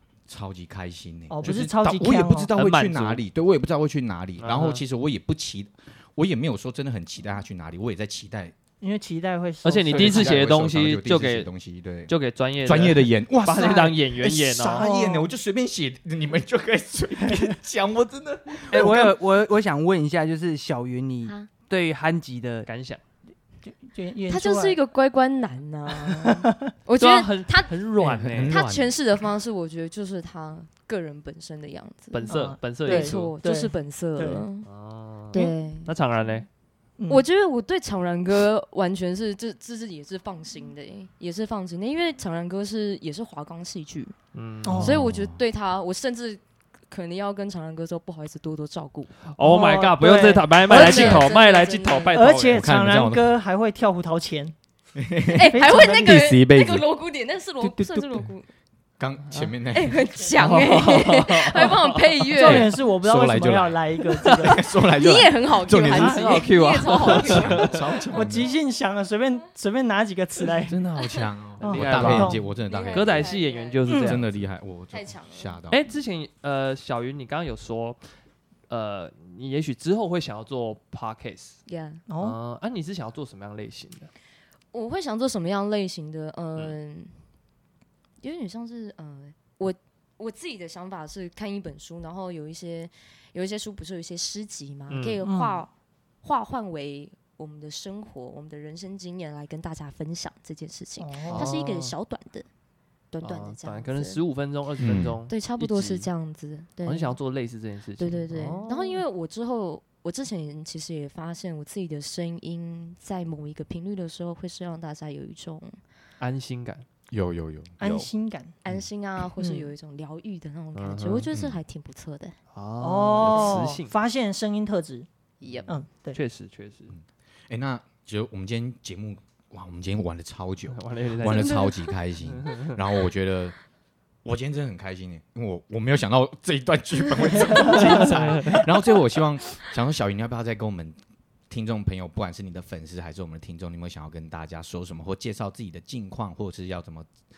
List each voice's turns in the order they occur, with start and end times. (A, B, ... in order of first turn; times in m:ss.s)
0:00.3-0:08.5 A
0:01.3-0:02.5 B
0:02.5-0:03.2 C
0:04.4-0:04.8 C
0:08.8-0:10.4 B
0:09.6-0:11.5 C
0:09.9-0:12.1 A
0:12.1-0:14.8 C
0:12.6-0:19.0 A
0:13.6-0:13.9 B
0:14.7-0:15.3 B
0:18.7-0:22.7 D
0:18.7-0:19.1 B
0:22.7-0:23.0 C
0:23.6-0:24.8 B
0:24.3-0:27.7 E
0:26.0-0:26.5 B
0:27.0-0:28.5 C
0:28.0-0:28.3 B
0:28.2-0:28.9 A
0:28.5-0:32.3 E
0:32.1-0:33.3 C
0:32.3-0:34.4 B
0:32.8-0:34.7 E
0:34.6-0:36.4 C
0:35.3-0:36.3 E
0:37.0-0:37.2 B
0:37.1-0:44.2 E
0:44.3-0:44.9 C
0:44.6-0:44.9 B
0:44.7-0:45.4 A
0:44.8-0:49.1 E
0:49.4-0:52.7 C
0:49.4-0:51.2 B
0:50.7-0:52.3 E
0:52.1-0:54.5 B
0:52.5-0:53.3 A
0:54.9-0:56.8 A
0:55.3-0:58.5 E
0:55.4-0:56.3 B
0:57.6-0:58.0 B
0:59.0-1:00.1 A
0:59.7-1:02.7 E
1:00.2-1:02.7 C
1:02.4-1:04.6 B
1:02.4-1:06.4 A
1:04.1-1:04.5 C
1:04.9-1:07.8 E
1:05.9-1:07.8 C
1:07.0-1:08.5 A
1:08.1-1:10.8 B
1:10.7-1:13.3 A
1:11.6-1:12.4 B
1:11.6-1:14.3 C
1:12.7-1:13.9 E
1:13.9-1:14.2 B
1:13.9-1:15.8 A
1:14.9-1:15.6 E
1:15.7-1:18.0 C
1:18.7-1:21.6 C
1:21.6-1:22.0 E
1:22.1-1:22.4 B
1:22.2-1:24.1 C
1:24.7-1:27.2 E
1:28.2-1:35.7 E
1:34.9-1:35.2 C
1:35.2-1:35.6 B
1:36.2-1:42.4 E
1:41.0-1:41.5 B
1:41.3-1:41.9 C
1:43.1-1:44.2 E
1:43.2-1:46.1 C
1:44.8-1:45.2 A
1:45.3-1:47.2 E
1:46.8-1:48.7 C
1:48.0-1:55.8 E
1:48.5-1:48.8 B
1:56.2-1:56.8 C
1:57.1-1:58.1 A
1:57.8-1:58.5 B
1:58.6-2:02.3 E
1:59.4-1:59.7 B
2:00.7-2:01.3 C
2:02.5-2:03.9 C
2:02.8-2:05.1 B
2:03.2-2:03.6 E
2:05.4-2:05.7 E
2:05.7-2:06.2 B
2:06.1-2:06.9 C
2:06.9-2:13.6 A
2:10.7-2:11.7 C
2:11.3-2:11.9 E
2:12.3-2:12.8 C
2:14.2-2:21.0 A
2:17.6-2:18.7 C
2:21.5-2:27.1 A